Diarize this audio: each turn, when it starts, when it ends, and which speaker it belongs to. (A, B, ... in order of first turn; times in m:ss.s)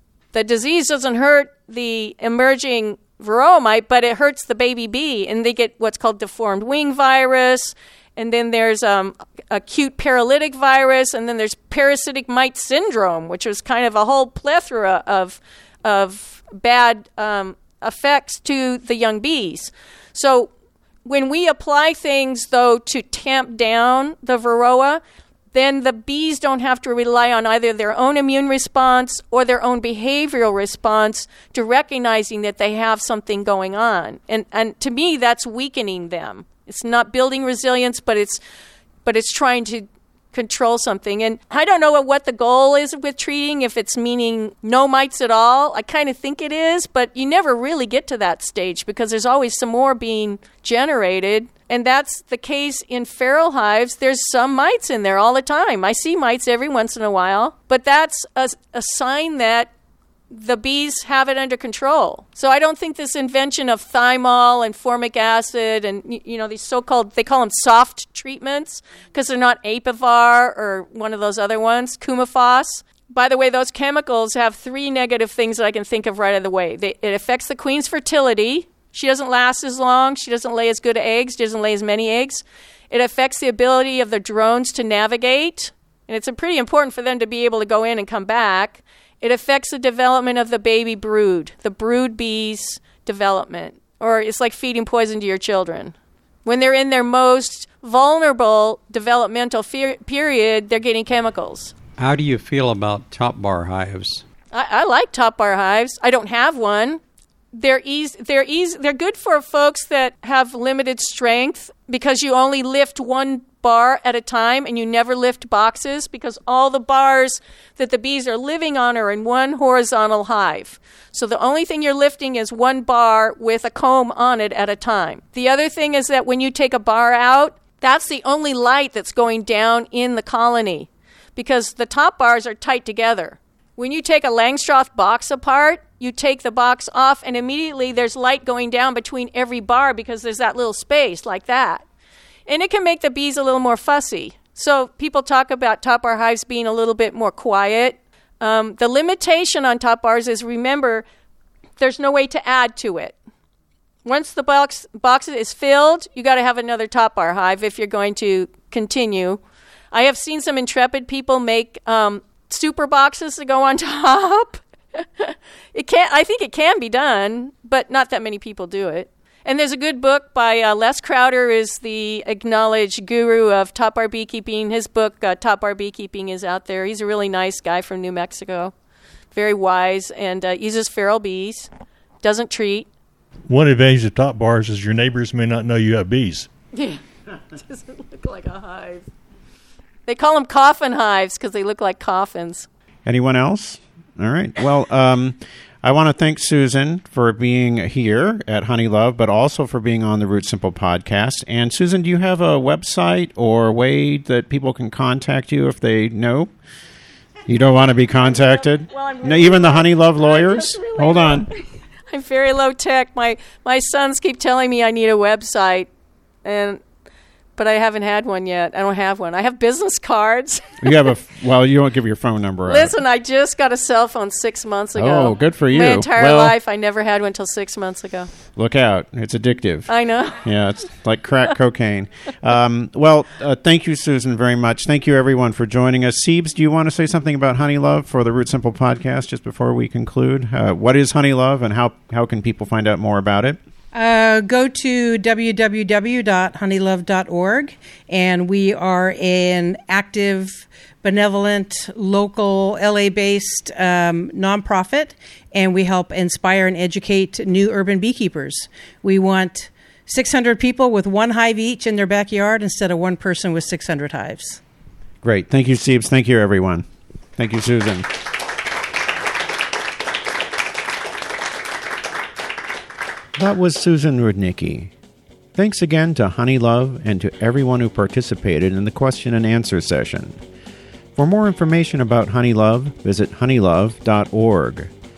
0:00.3-0:20.5 A
0:21.0-0:25.0 A
0:25.5-0:38.4 A
0:39.0-0:59.7 A
1:00.3-1:35.9 A
1:36.4-1:41.7 A
1:42.0-1:44.2 B
1:44.5-1:47.0 A
1:47.5-2:21.8 A
2:22.5-2:31.0 A
2:31.8-2:33.2 A
2:34.0-2:39.4 A
2:39.9-2:58.7 A
2:59.3-3:01.7 A
3:02.2-3:02.9 A
3:03.5-3:06.5 C
3:06.7-3:09.1 A
3:10.1-3:12.7 A
3:13.0-3:26.5 D
3:27.4-3:31.5 D
3:28.8-3:31.5 A
3:32.1-3:35.9 A
3:36.4-3:36.8 A
3:37.6-3:40.9 A
3:40.8-3:42.9 D
3:42.7-3:48.3 A
3:45.0-3:46.5 D
3:48.6-4:03.6 D
3:49.9-3:50.4 A
4:03.9-4:24.6 E
4:25.2-4:26.8 D
4:27.4-4:28.2 D
4:33.4-4:34.9 D
4:35.5-4:40.4 D
4:41.1-4:44.9 D